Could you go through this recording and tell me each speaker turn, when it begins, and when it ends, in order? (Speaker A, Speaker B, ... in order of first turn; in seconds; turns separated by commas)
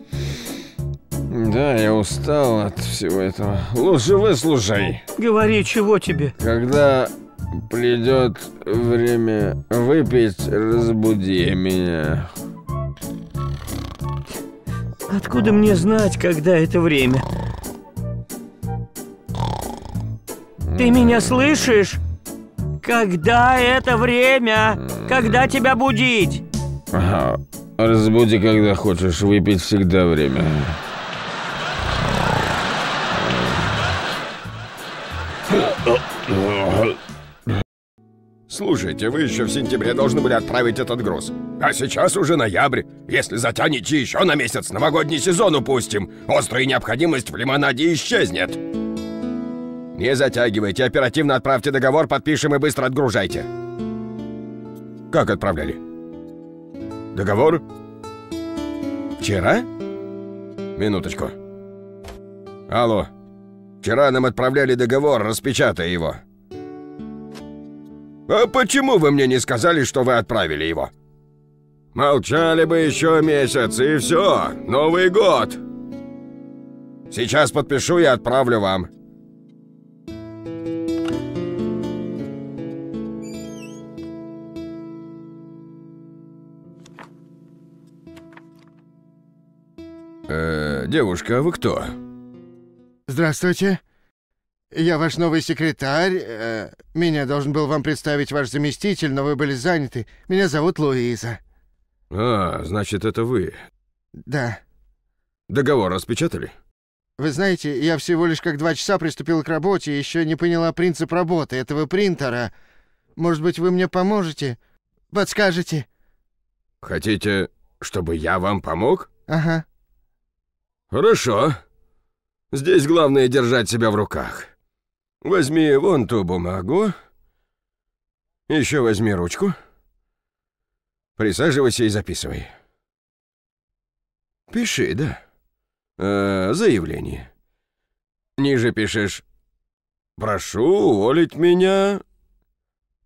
Speaker A: 1.3-5.0, Speaker B: 5.2-6.3, Speaker A: 6.4-12.3, Speaker B: 15.1-17.2, Speaker B: 20.8-22.0, Speaker B: 22.8-26.4, Speaker A: 26.9-30.8, Speaker A: 36.3-36.9, Speaker C: 38.5-48.6, Speaker C: 50.0-53.5, Speaker C: 55.1-55.8, Speaker C: 57.1-57.6, Speaker C: 59.2-59.7, Speaker C: 60.8-61.3, Speaker C: 62.7-63.1, Speaker C: 63.8-66.2, Speaker C: 68.3-70.9, Speaker C: 72.0-75.6, Speaker C: 77.1-78.9, Speaker C: 90.3-91.9, Speaker D: 93.1-93.8, Speaker D: 94.7-101.4, Speaker C: 102.1-103.6, Speaker D: 104.3-104.6, Speaker C: 105.5-106.5, Speaker D: 107.2-112.5, Speaker D: 113.2-114.6, Speaker D: 115.1-115.9, Speaker C: 116.8-119.1, Speaker D: 119.3-119.6, Speaker C: 120.9-121.6, Speaker C: 122.5-124.5, Speaker C: 125.2-126.9, Speaker C: 128.5-129.6, Speaker C: 131.2-132.5, Speaker C: 134.5-135.2, Speaker C: 136.0-137.3, Speaker C: 138.4-139.2, Speaker C: 140.2-142.0